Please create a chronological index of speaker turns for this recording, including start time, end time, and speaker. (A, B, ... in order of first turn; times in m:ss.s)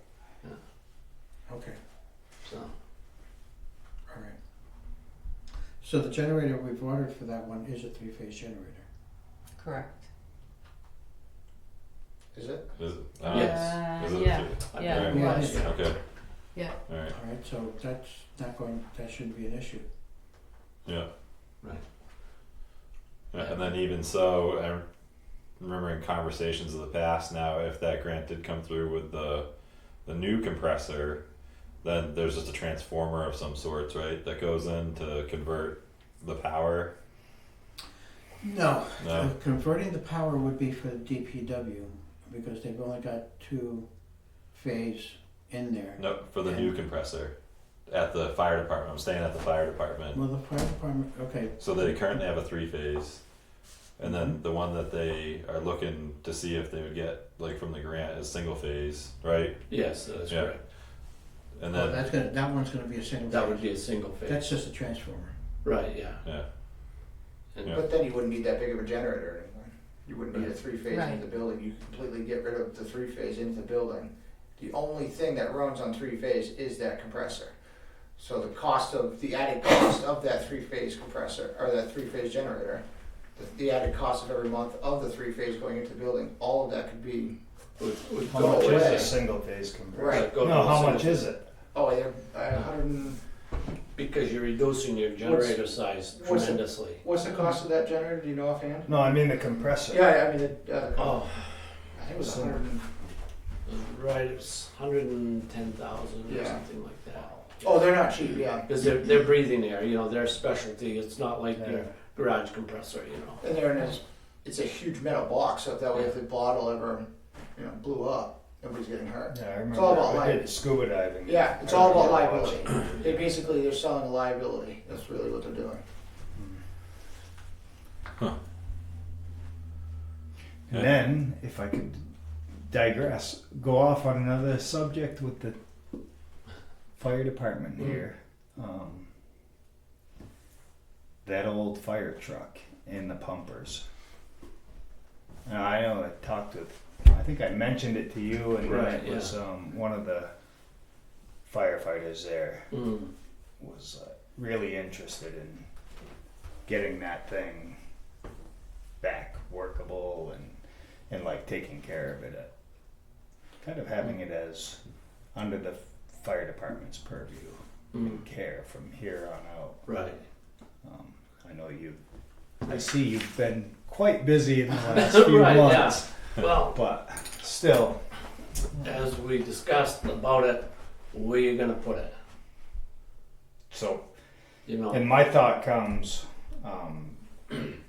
0:01.5-0:01.8 A
0:02.4-0:02.7 B
0:04.1-0:04.4 A
0:05.8-0:08.8 A
0:09.6-0:10.0 C
0:12.3-0:12.8 D
0:12.8-0:17.1 E
0:13.3-0:15.9 C
0:13.3-0:13.8 B
0:14.7-0:15.8 B
0:14.9-0:15.8 A
0:16.5-0:16.8 C
0:17.1-0:19.8 A
0:23.3-0:24.8 E
0:23.4-0:23.7 B
0:25.6-0:31.2 E
0:31.8-0:36.9 E
0:38.4-0:43.9 A
0:39.0-0:39.3 E
0:44.4-0:46.7 A
0:46.0-0:47.3 E
0:47.9-0:50.2 E
0:50.1-0:51.9 A
0:51.6-0:53.3 E
0:53.9-0:59.7 E
0:54.0-0:54.4 A
0:59.7-1:00.6 B
1:00.3-1:00.5 E
1:01.6-1:02.1 E
1:01.7-1:05.4 A
1:03.3-1:04.5 B
1:05.6-1:06.2 B
1:07.7-1:17.5 D
1:10.9-1:11.2 C
1:18.2-1:22.8 D
1:23.4-1:27.4 D
1:27.8-1:29.2 B
1:28.3-1:29.2 D
1:28.3-1:31.4 F
1:29.9-1:30.3 D
1:30.1-1:31.2 B
1:31.7-1:33.2 D
1:34.0-1:37.0 B
1:35.2-1:38.9 D
1:38.9-1:40.1 F
1:39.9-1:41.2 D
1:41.0-1:41.8 B
1:42.0-1:42.8 D
1:42.2-1:42.6 F
1:43.7-1:47.8 B
1:46.3-1:46.6 D
1:47.1-1:48.7 D
1:48.6-1:53.5 B
1:51.6-1:51.9 F
1:53.4-2:00.5 D
1:59.3-2:02.9 F
2:01.2-2:05.8 D
2:06.4-2:06.6 F
2:10.7-2:12.1 F
2:12.7-2:15.6 F
2:17.0-2:19.1 F
2:21.2-2:23.8 F
2:25.5-2:30.3 F
2:28.6-2:29.3 B
2:31.5-2:32.9 F
2:32.7-2:33.1 B
2:33.6-2:35.7 F
2:36.7-2:37.8 F
2:39.0-2:40.6 F
2:41.1-2:42.5 F
2:43.6-2:44.8 F
2:45.3-2:49.8 F
2:47.9-2:48.2 B
2:49.9-2:50.2 B
2:50.8-2:52.0 F
2:52.6-2:58.0 F
2:54.9-2:56.8 B
2:58.8-3:02.2 B
3:03.7-3:04.0 F
3:04.7-3:05.0 B
3:04.9-3:07.2 F